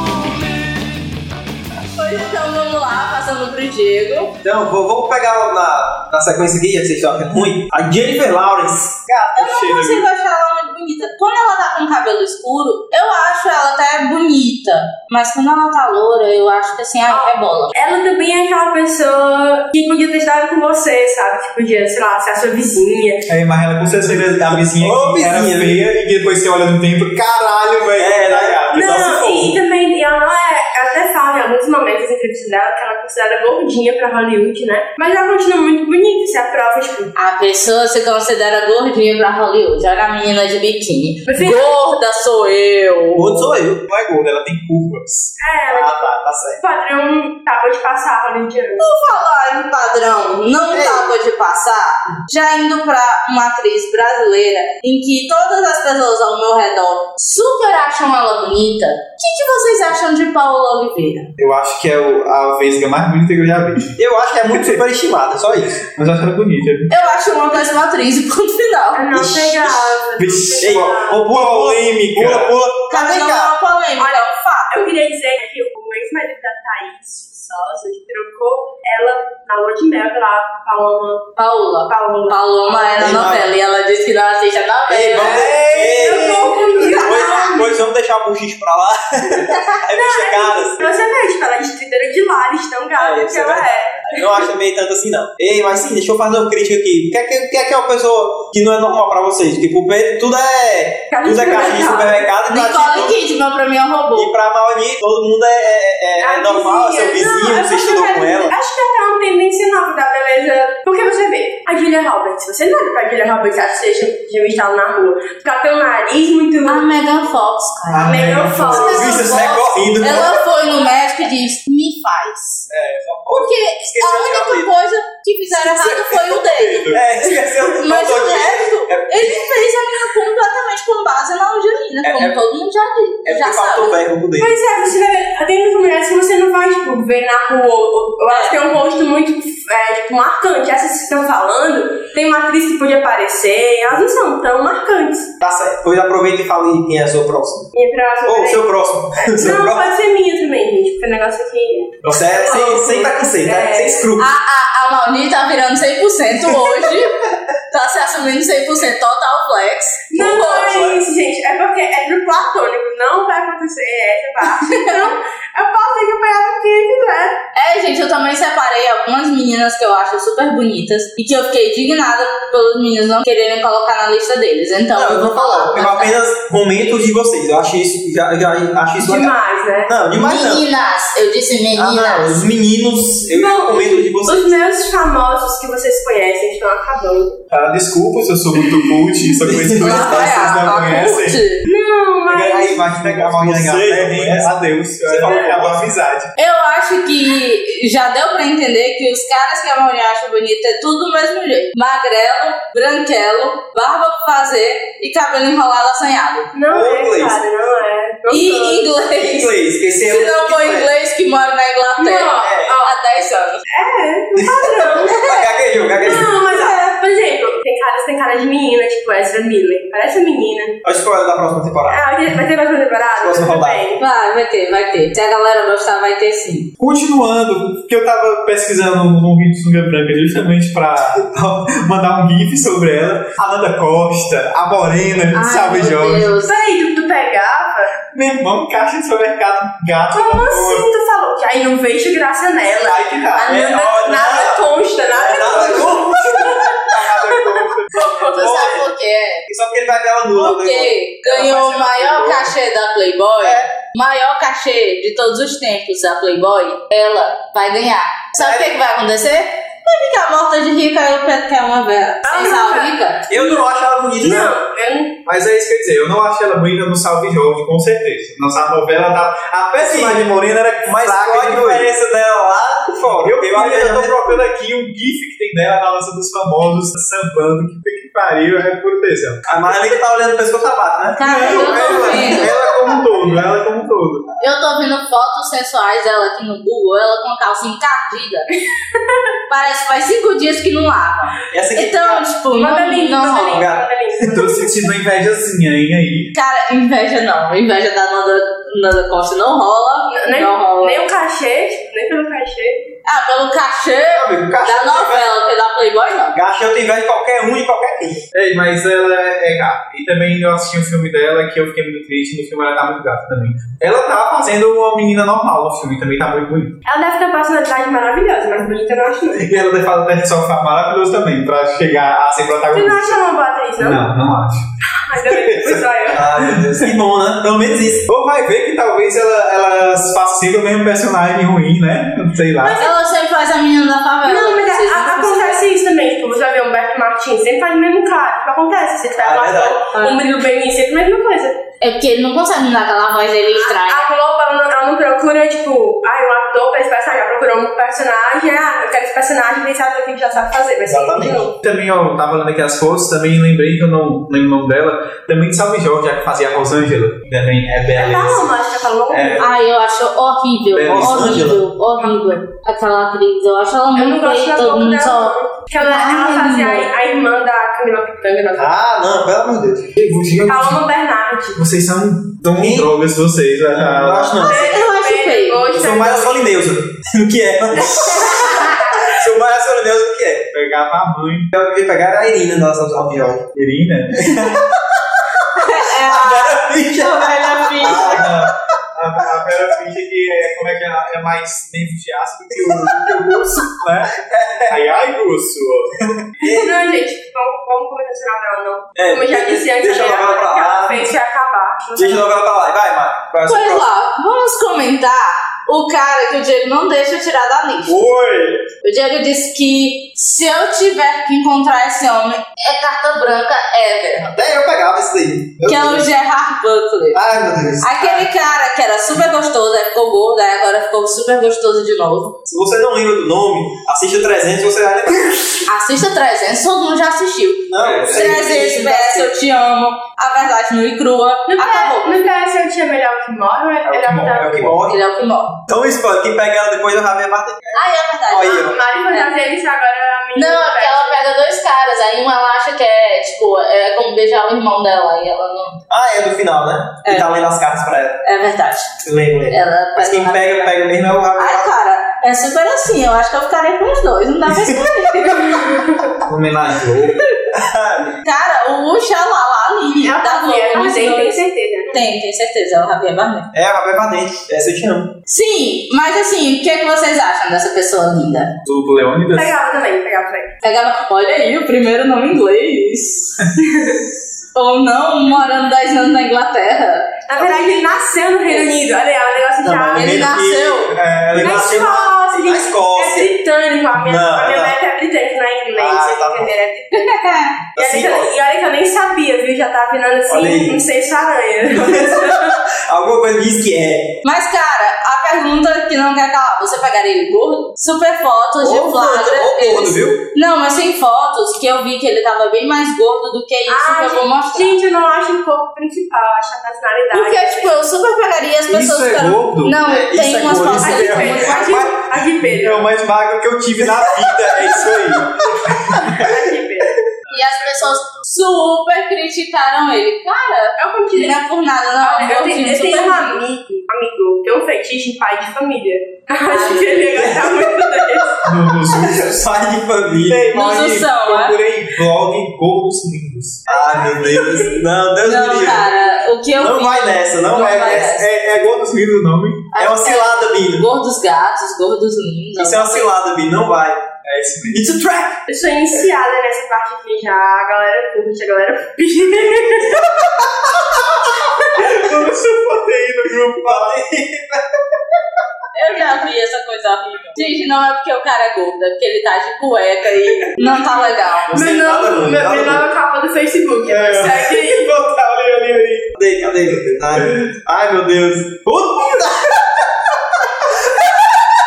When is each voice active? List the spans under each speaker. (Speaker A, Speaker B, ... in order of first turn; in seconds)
Speaker A: 1.9-4.3, 9.3-17.7, 37.2-43.6, 48.8-61.3, 66.9-69.2, 72.9-75.0, 81.4-85.6, 86.9-87.5, 102.5-104.3, 116.7-122.7, 123.4-134.0, 138.3-138.6, 154.2-157.2, 157.7-160.9, 164.4-165.1, 167.6-176.2, 180.2-182.4, 189.8-191.6, 196.4-206.5, 208.3-213.6, 215.0-215.5, 216.1-216.8, 224.0-226.7, 235.3-236.6, 248.2-249.4, 250.3-263.3, 281.2-282.5, 284.4-288.5, 289.5-293.7, 296.4-301.1, 303.1-306.4, 332.8-335.6, 340.0-340.2, 341.8-344.1, 359.4-366.9, 374.4-375.7, 377.9-379.1, 385.6-388.3, 403.5-408.0, 408.8-414.3, 415.7-417.2, 417.8-422.4, 425.7-432.2, 434.9-435.6, 437.7-439.3, 440.4-445.8, 447.0-447.3, 448.2-450.7, 451.4-456.1, 458.2-463.5, 465.3-468.5, 470.6-473.5, 474.6-477.8, 480.0-480.9, 486.9-487.6, 494.2-504.8, 507.1-511.9, 517.3-523.4, 526.5-527.4, 530.5-531.6, 535.2-538.2, 539.7-543.1, 555.7-561.6
Speaker B: 4.4-9.0, 24.1-25.8, 28.0-29.6, 43.1-43.8, 50.7-51.1, 64.0-65.8, 69.1-69.8, 70.6-73.5, 82.9-83.5, 84.9-90.9, 93.0-103.2, 104.1-108.5, 118.6-120.5, 123.2-124.7, 126.9-129.6, 132.0-132.4, 133.2-134.6, 145.4-147.7, 148.3-149.9, 152.1-154.3, 160.4-160.9, 175.0-179.3, 179.9-180.6, 181.8-184.5, 189.4-190.7, 192.5-195.9, 206.7-207.4, 209.2-210.9, 212.4-212.7, 214.4-216.4, 220.8-222.1, 223.2-223.8, 243.4-246.3, 248.4-248.8, 249.5-251.0, 253.4-253.7, 258.4-258.7, 263.3-264.6, 269.8-274.3, 279.5-282.5, 291.5-292.2, 293.4-294.5, 304.1-305.3, 306.3-308.2, 326.1-328.1, 339.2-339.8, 350.9-351.4, 360.9-361.6, 368.6-370.1, 372.4-372.9, 373.7-374.7, 375.7-380.5, 381.5-383.5, 384.2-384.8, 385.6-388.5, 392.5-394.8, 396.4-396.7, 398.9-401.1, 401.9-403.9, 407.9-408.6, 414.2-416.1, 417.1-418.3, 422.4-425.6, 427.7-429.3, 434.4-435.0, 435.7-438.8, 445.9-448.2, 449.0-451.7, 454.5-455.2, 457.5-458.2, 463.5-465.1, 477.4-477.7, 479.6-483.4, 483.9-484.8, 485.8-486.5, 487.8-488.3, 490.3-490.8, 491.7-494.2, 498.6-500.2, 509.8-511.9, 513.8-515.2, 515.8-516.3, 528.9-530.5, 533.7-536.0, 536.6-538.2, 539.8-540.9, 542.6-544.1, 544.7-545.4, 553.6-554.7, 561.5-562.9, 566.1-569.9, 570.5-571.2
Speaker C: 9.1-10.1, 23.3-28.8, 43.9-46.6, 61.4-64.0, 64.5-64.8, 65.8-66.9, 70.2-72.6, 85.5-85.8, 117.9-119.1, 122.7-123.2, 125.5-127.0, 187.5-191.4, 192.3-196.3, 226.8-236.3, 238.1-240.9, 242.7-243.7, 245.4-248.1, 251.3-252.5, 265.3-271.9, 273.1-279.5, 281.2-284.3, 294.3-296.3, 308.3-316.8, 319.4-323.2, 323.8-326.9, 328.1-332.8, 351.6-358.5, 359.1-359.4, 360.7-361.5, 370.0-370.8, 371.6-374.4, 380.5-381.5, 383.6-384.6, 387.8-394.1, 394.7-396.2, 427.8-428.7, 433.9-434.8, 456.3-457.2, 468.6-469.5, 480.9-481.8, 508.7-509.8, 512.4-516.4, 517.3-518.2, 528.5-529.5, 530.3-533.6, 538.1-539.7, 544.2-545.0, 551.8-554.0, 563.9-566.1, 567.1-567.6
Speaker D: 17.1-23.3, 28.3-37.1, 41.3-41.8, 45.4-48.9, 68.9-71.3, 74.0-81.3, 81.9-82.9, 85.2-87.8, 89.9-94.4, 101.1-102.3, 106.2-116.9, 118.0-119.4, 134.4-145.3, 147.7-148.7, 149.2-154.1, 160.1-167.4, 179.0-180.0, 183.3-187.4, 191.6-192.8, 195.2-195.5, 206.5-208.9, 212.0-212.9, 213.7-215.4, 216.0-220.8, 221.9-224.0, 236.4-237.9, 240.1-248.6, 262.2-263.6, 264.2-265.2, 282.4-283.4, 292.6-294.8, 300.1-302.8, 316.9-319.6, 322.7-324.1, 325.1-326.3, 332.6-333.0, 334.2-341.6, 343.5-351.6, 357.9-359.5, 362.0-362.4, 363.9-368.7, 370.4-371.7, 374.4-376.5, 396.4-402.3, 431.5-434.6, 438.4-441.2, 460.0-462.0, 469.3-470.5, 473.6-474.0, 477.3-480.3, 481.3-487.2, 487.8-492.6, 503.7-507.7, 510.8-512.9, 516.2-516.9, 520.8-521.4, 522.0-528.7, 533.7-534.9, 545.5-550.3, 560.6-564.9